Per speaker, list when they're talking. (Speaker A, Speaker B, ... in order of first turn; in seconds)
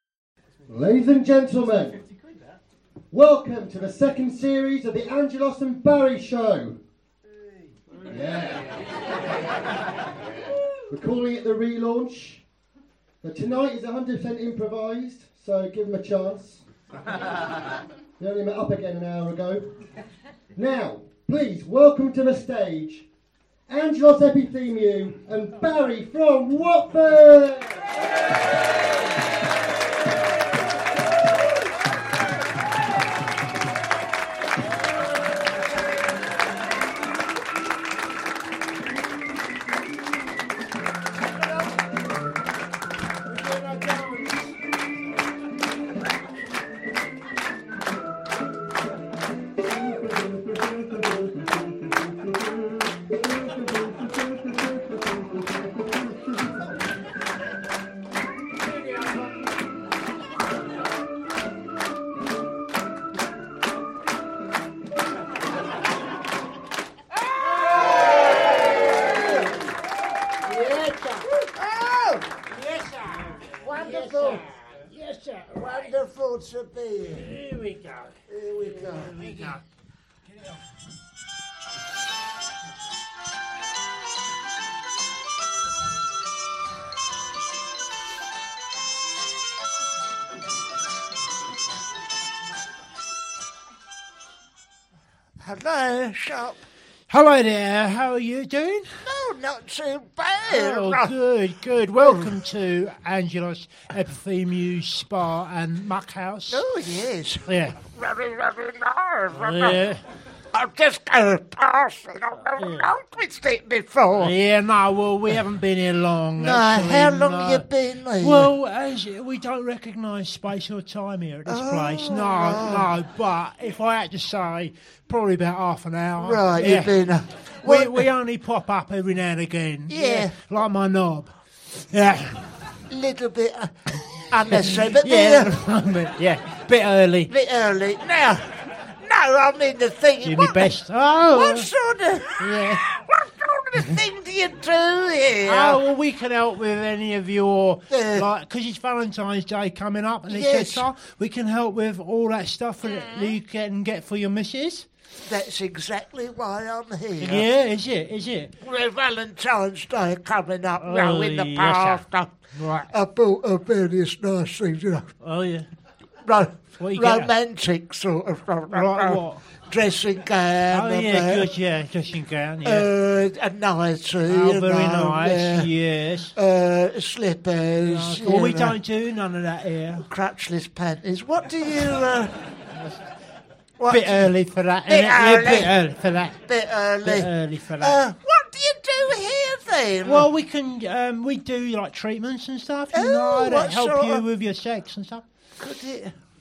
Speaker A: 0.7-2.0, 3.1-6.8, 8.1-8.7, 10.9-12.4, 13.2-16.6, 18.2-19.7, 20.6-23.1, 23.7-27.8
Speaker B: 68.5-69.3, 70.4-72.4, 73.6-74.5, 75.5-77.3, 78.3-79.6, 95.4-96.6, 99.0-101.1, 102.0-102.3, 106.5-109.8, 110.5-114.3, 116.4-118.5, 121.5-122.9, 126.2-128.1, 129.9-130.3, 132.9-133.8, 134.3-135.5, 137.3-140.7, 141.3-145.8, 147.9-148.2, 150.3-150.9, 152.9-153.3, 155.3-157.5, 158.6-162.3, 162.9-165.1, 166.2-171.5, 172.7-175.7, 176.3-178.8, 180.0-182.3, 183.8-184.3, 184.9-185.7, 186.5-190.3, 192.9-194.2, 195.6-196.1
Speaker C: 72.5-75.9, 77.2-79.6, 97.1-98.9, 100.5-106.6, 107.5-107.8, 109.4-110.0, 112.6-112.9, 114.2-117.7, 118.2-126.9, 127.7-132.6, 134.5-137.3, 140.2-141.7, 142.4-142.8, 145.5-154.9, 157.2-158.5, 160.8-162.0, 162.5-162.9, 165.2-165.7, 166.8-167.3, 168.7-169.4, 170.7-172.9, 174.3-176.3, 177.8-180.1, 183.9-186.4, 187.0-188.0, 190.1-195.2